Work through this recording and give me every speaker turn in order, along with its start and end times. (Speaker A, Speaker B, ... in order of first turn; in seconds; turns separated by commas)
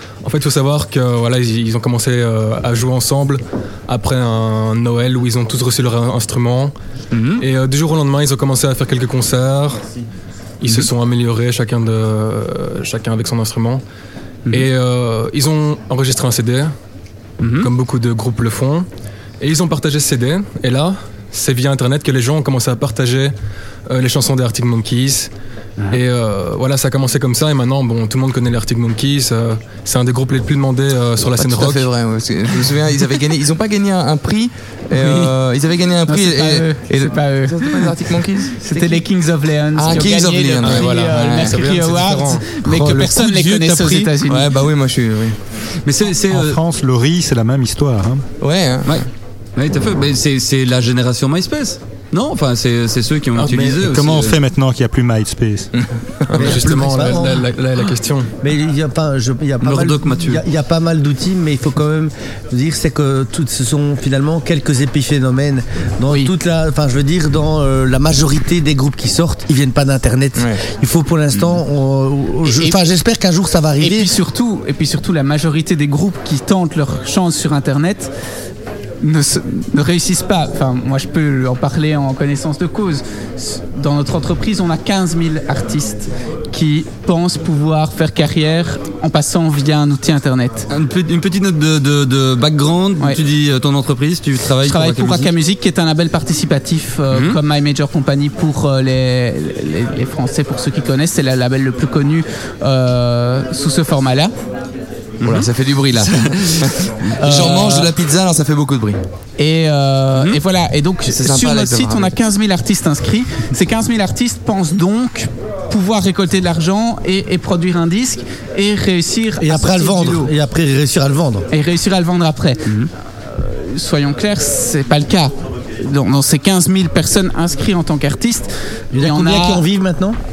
Speaker A: 0.2-6.7, Speaker B: 7.1-7.4, Speaker A: 7.4-9.9, Speaker A: 10.6-13.8, Speaker A: 14.5-16.7, Speaker B: 17.4-17.7, Speaker A: 17.6-18.9, Speaker A: 19.4-23.3, Speaker A: 23.9-25.3, Speaker A: 25.9-31.9, Speaker C: 31.2-39.1, Speaker D: 35.0-35.3, Speaker D: 36.1-44.6, Speaker C: 39.7-41.7, Speaker A: 40.6-42.5, Speaker C: 42.6-45.4, Speaker E: 43.5-44.0, Speaker B: 45.8-46.6, Speaker E: 46.3-48.3, Speaker C: 48.4-49.0, Speaker B: 48.9-54.4, Speaker A: 53.4-53.8, Speaker E: 53.8-55.7, Speaker C: 55.7-56.5, Speaker A: 56.3-58.3, Speaker F: 56.4-57.5, Speaker F: 58.4-74.1, Speaker B: 59.6-60.4, Speaker C: 70.4-70.6, Speaker D: 72.5-72.8, Speaker D: 73.8-78.1, Speaker D: 79.0-90.7, Speaker B: 90.7-95.3, Speaker D: 94.6-104.3, Speaker B: 97.1-97.4, Speaker B: 105.2-105.5, Speaker C: 105.2-109.0, Speaker B: 106.1-106.7, Speaker D: 107.2-107.9, Speaker D: 109.4-120.3, Speaker B: 110.1-110.4, Speaker C: 111.1-112.2, Speaker F: 119.4-121.5, Speaker D: 121.5-129.7, Speaker F: 128.9-130.2